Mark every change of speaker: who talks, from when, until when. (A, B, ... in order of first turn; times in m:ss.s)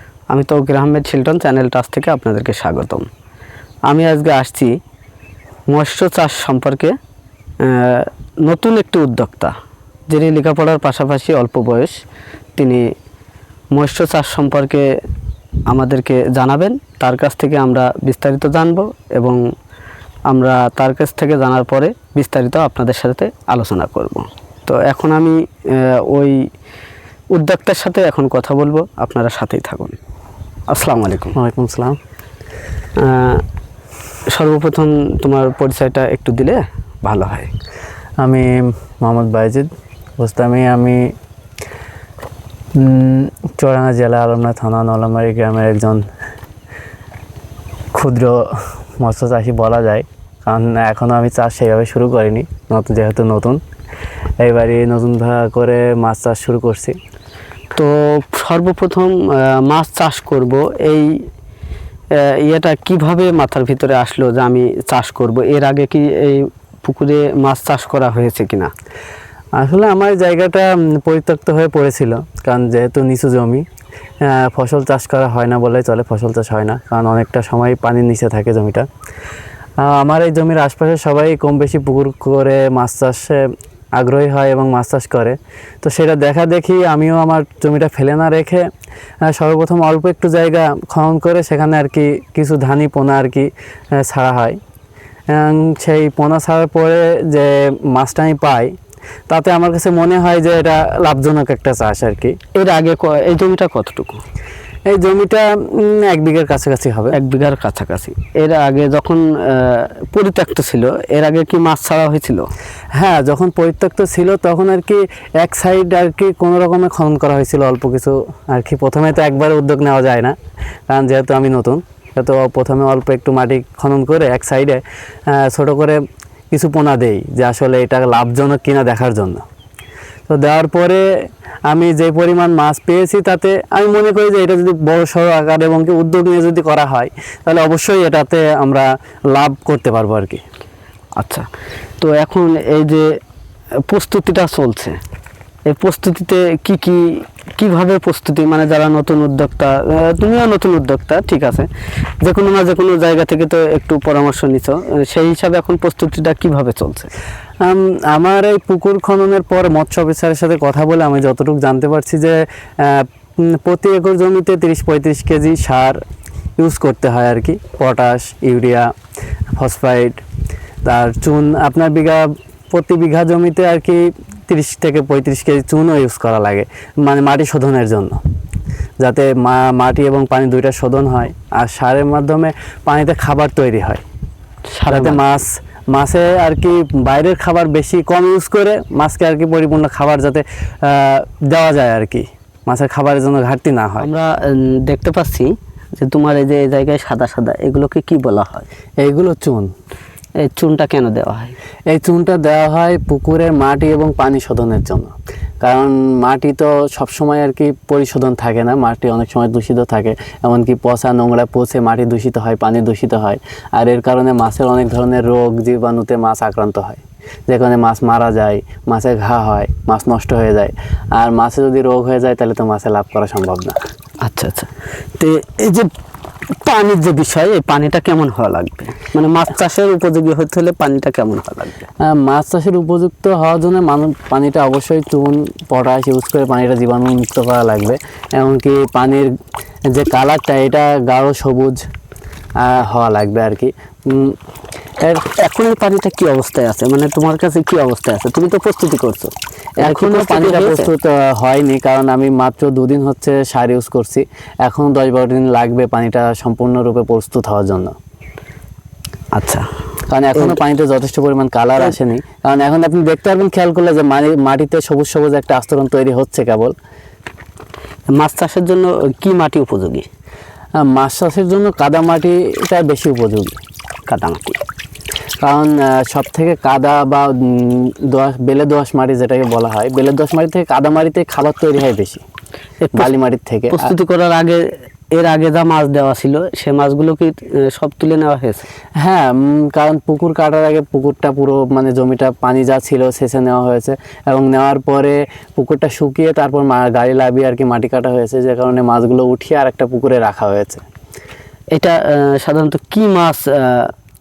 0:00.3-0:03.0 A
0:03.9-0:04.8 A
0:05.7-0:06.9 A
0:07.6-0:09.5 A
0:10.1-0:12.0 A
0:12.6-0:12.8 A
0:13.7-0:14.9 A
0:15.7-0:19.4 A
0:20.3-0:26.4 A
0:27.3-0:30.0 A
0:30.7-0:31.4 A
0:31.3-0:32.0 B
0:33.0-0:33.4 A
0:34.3-0:37.5 A
0:38.2-0:41.1 B
0:42.8-0:46.0 B
0:47.9-0:48.4 B
0:49.0-0:53.6 B
0:54.4-0:57.0 B
0:57.8-1:01.2 A
1:02.2-1:08.7 A
1:09.6-1:13.6 B
1:14.2-1:18.9 B
1:19.8-1:23.4 B
1:24.0-1:28.7 B
1:29.2-1:34.6 B
1:35.3-1:38.7 B
1:39.3-1:42.4 B
1:42.5-1:44.2 A
1:44.9-1:47.2 B
1:47.1-1:52.5 A
1:52.9-2:00.4 B
2:00.9-2:06.0 B
2:06.5-2:09.4 B
2:10.3-2:11.1 B
2:11.7-2:20.4 B
2:21.2-2:21.5 A
2:22.0-2:23.1 A
2:23.9-2:25.0 A
2:25.7-2:31.7 A
2:32.2-2:37.1 A
2:37.6-2:46.0 B
2:46.6-2:48.9 B
2:49.6-2:50.2 B
2:50.8-2:58.2 B
2:59.0-3:04.0 B
3:04.7-3:05.2 A
3:04.9-3:14.1 B
3:14.0-3:18.7 A
3:19.0-3:19.7 B
3:20.4-3:21.5 A
3:21.9-3:43.8 B
3:44.2-3:45.9 A
3:46.6-3:51.9 A
3:52.0-3:59.3 B
3:59.9-4:01.8 B
4:02.6-4:04.3 B
4:05.2-4:10.9 A
4:09.8-4:17.9 B
4:19.4-4:19.6 A
4:20.1-4:26.7 B
4:28.1-4:30.0 A
4:30.8-4:33.6 B
4:34.1-4:34.6 A
4:35.4-4:42.2 B
4:42.8-4:43.1 A
4:42.9-4:43.9 B
4:43.7-4:48.6 A
4:49.0-5:00.8 B
5:01.7-5:03.9 A